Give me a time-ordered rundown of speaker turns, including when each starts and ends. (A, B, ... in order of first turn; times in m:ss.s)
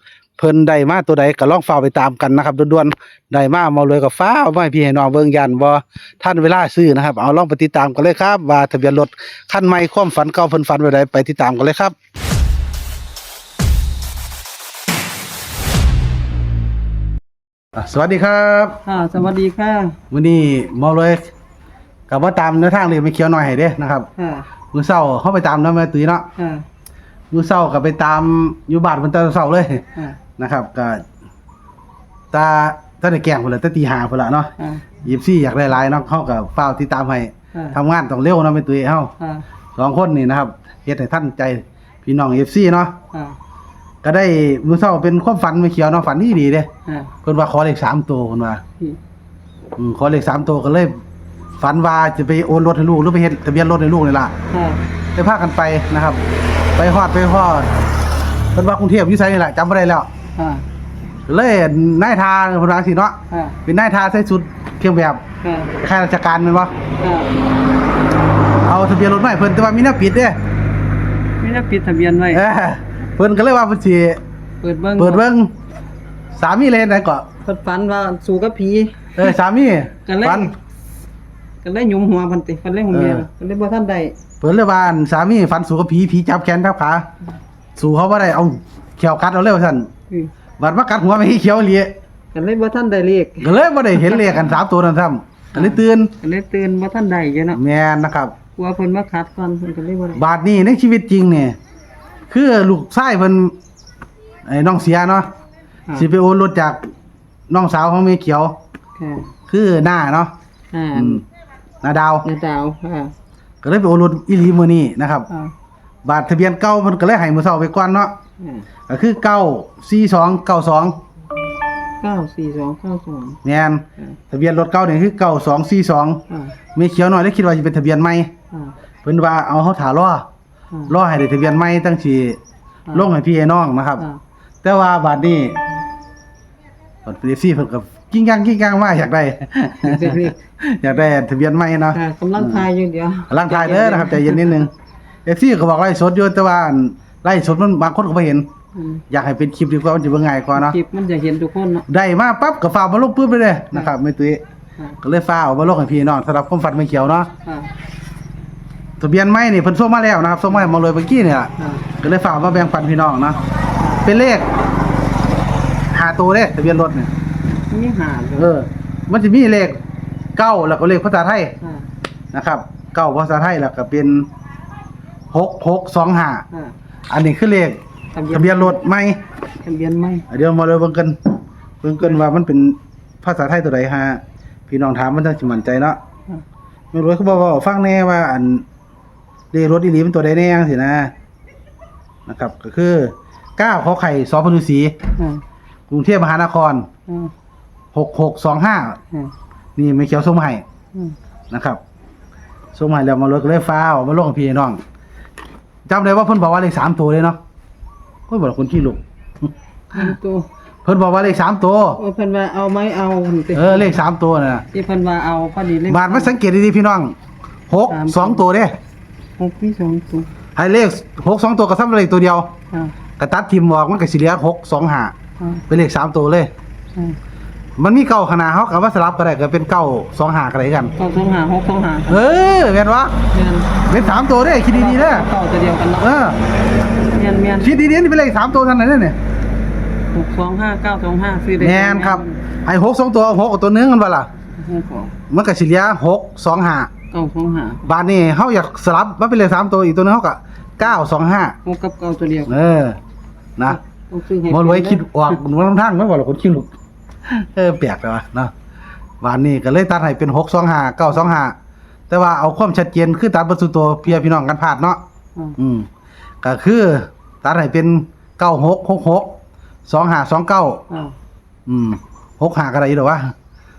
0:00.4-0:11.9 A
0:17.7-0:18.8 A
0:18.8-0:20.0 B
0:20.1-0:21.3 A
0:22.1-0:24.1 A
0:24.2-0:24.5 B
0:24.7-0:26.3 A
0:26.4-0:26.6 B
0:27.3-0:29.8 A
0:30.4-0:31.0 A
0:32.3-0:39.1 A
0:34.6-0:34.8 B
0:39.2-0:39.4 B
0:39.8-0:43.0 A
0:44.0-0:46.7 A
0:46.8-0:47.1 B
0:47.2-0:48.6 A
0:49.8-0:51.0 A
0:51.6-0:54.3 A
0:54.5-0:54.8 B
0:55.1-0:56.2 A
0:56.8-0:57.7 A
0:58.5-1:00.1 A
1:00.4-1:00.6 B
1:01.3-1:05.2 A
1:03.3-1:03.6 B
1:05.4-1:05.7 B
1:05.8-1:06.7 A
1:07.0-1:07.3 B
1:08.6-1:10.4 A
1:11.4-1:12.4 B
1:12.3-1:14.2 A
1:14.6-1:15.2 B
1:15.0-1:15.5 A
1:16.3-1:17.2 A
1:17.4-1:19.3 B
1:19.2-1:20.5 A
1:20.0-1:20.5 B
1:21.6-1:24.2 B
1:22.9-1:23.2 A
1:24.4-1:27.0 A
1:27.8-1:29.9 A
1:30.6-1:31.9 A
1:32.3-1:34.2 B
1:33.4-1:36.1 A
1:35.5-1:37.6 B
1:37.5-1:38.3 A
1:38.6-1:40.2 B
1:40.1-1:41.6 A
1:42.3-1:43.5 A
1:44.4-1:45.3 A
1:45.9-1:46.9 A
1:47.5-1:48.6 A
1:49.0-1:49.3 B
1:49.5-1:50.3 A
1:50.7-1:51.2 B
1:50.9-1:51.2 A
1:51.8-1:52.2 A
1:52.2-1:53.1 B
1:53.6-1:55.3 A
1:56.0-1:58.1 A
1:58.4-1:58.6 B
1:58.9-2:01.0 A
2:02.0-2:03.4 B
2:03.4-2:06.2 A
2:06.3-2:06.5 B
2:06.7-2:08.3 A
2:09.0-2:10.2 A
2:10.9-2:12.4 A
2:12.9-2:14.0 A
2:14.6-2:15.6 A
2:17.0-2:22.6 A
2:19.8-2:20.3 B
2:21.9-2:24.7 B
2:23.3-2:24.7 A
2:25.2-2:28.5 A
2:28.7-2:29.0 B
2:29.1-2:30.8 A
2:30.5-2:31.8 B
2:31.9-2:34.4 A
2:35.0-2:37.3 A
2:37.4-2:37.7 B
2:39.0-2:43.4 A
2:41.6-2:41.8 B
2:44.0-2:44.5 A
2:45.9-2:47.1 A
2:47.7-2:48.5 B
2:48.4-2:49.8 A
2:50.4-2:51.6 A
2:51.6-2:51.9 B
2:52.3-2:54.3 A
2:55.3-2:56.4 A
2:57.1-2:59.2 A
2:58.1-2:58.8 B
2:59.6-3:00.2 B
3:00.3-3:06.0 A
3:06.9-3:08.6 A
3:09.5-3:11.1 A
3:12.3-3:15.0 A
3:15.2-3:15.4 B
3:15.9-3:16.9 A
3:17.9-3:19.0 A
3:19.8-3:20.6 A
3:21.5-3:21.8 A
3:22.7-3:24.8 A
3:25.8-3:27.4 A
3:28.3-3:29.5 A
3:29.9-3:30.5 B
3:30.8-3:32.0 A
3:32.0-3:33.9 B
3:33.5-3:34.6 A
3:34.7-3:36.4 B
3:35.9-3:37.1 A
3:37.7-3:38.8 A
3:37.9-3:38.4 B
3:39.4-3:40.3 B
3:40.6-3:42.5 A
3:43.2-3:45.1 A
3:45.7-3:46.5 A
3:47.8-3:50.9 A
3:51.0-3:52.2 B
3:52.1-3:53.2 A
3:53.3-3:54.2 B
3:53.9-3:55.2 A
3:54.7-3:56.1 B
3:56.0-3:56.4 A
3:57.1-3:57.7 B
3:57.6-3:59.2 A
4:00.1-4:02.4 B
4:01.6-4:04.3 A
4:04.6-4:05.1 B
4:05.3-4:06.9 A
4:07.1-4:07.9 B
4:07.8-4:11.6 A
4:11.6-4:12.6 B
4:12.5-4:13.0 A
4:13.7-4:15.4 B
4:14.5-4:16.7 A
4:17.2-4:18.5 A
4:19.2-4:21.6 A
4:22.1-4:25.0 A
4:25.6-4:25.9 A
4:26.4-4:30.8 A
4:30.9-4:31.1 B
4:31.6-4:33.3 A